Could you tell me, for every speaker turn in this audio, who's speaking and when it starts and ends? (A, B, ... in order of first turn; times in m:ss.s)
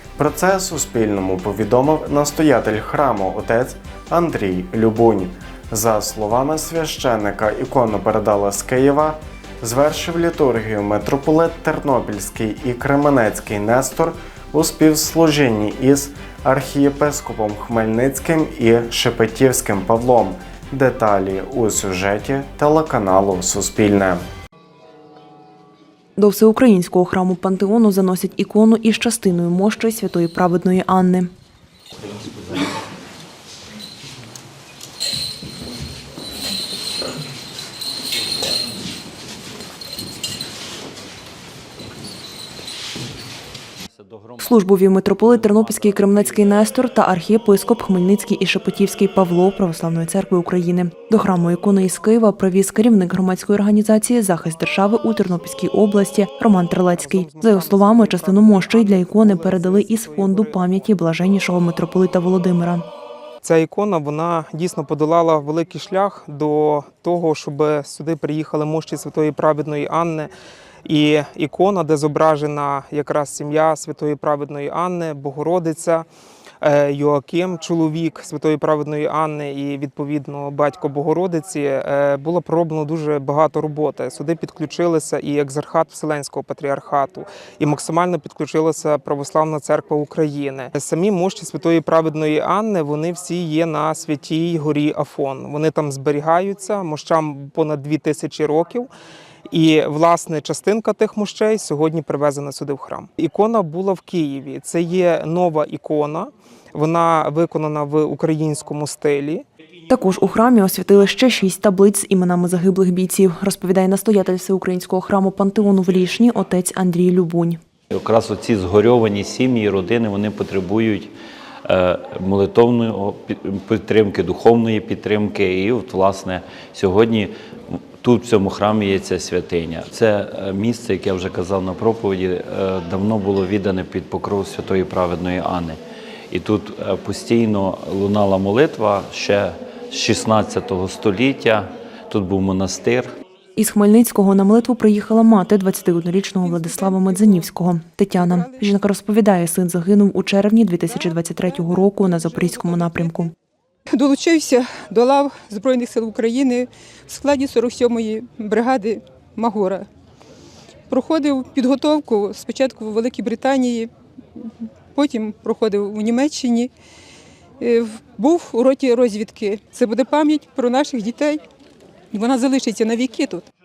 0:00.2-0:24.2 A
0:26.2-0:31.3 B
0:43.9-0:46.6 C
0:44.4-1:02.8 B
0:56.5-1:00.9 D
1:03.4-1:10.3 D
1:10.8-1:16.1 D
1:16.6-1:38.9 D
1:39.5-1:49.4 D
1:49.9-1:57.6 B
1:57.9-2:01.1 C
2:01.6-2:23.1 C
2:23.6-2:33.3 B
2:26.4-2:27.5 E
2:28.1-2:28.6 E
2:30.8-2:33.3 E
2:33.9-2:39.9 E
2:40.9-2:46.7 E
2:47.6-2:51.4 E
2:52.1-2:53.5 E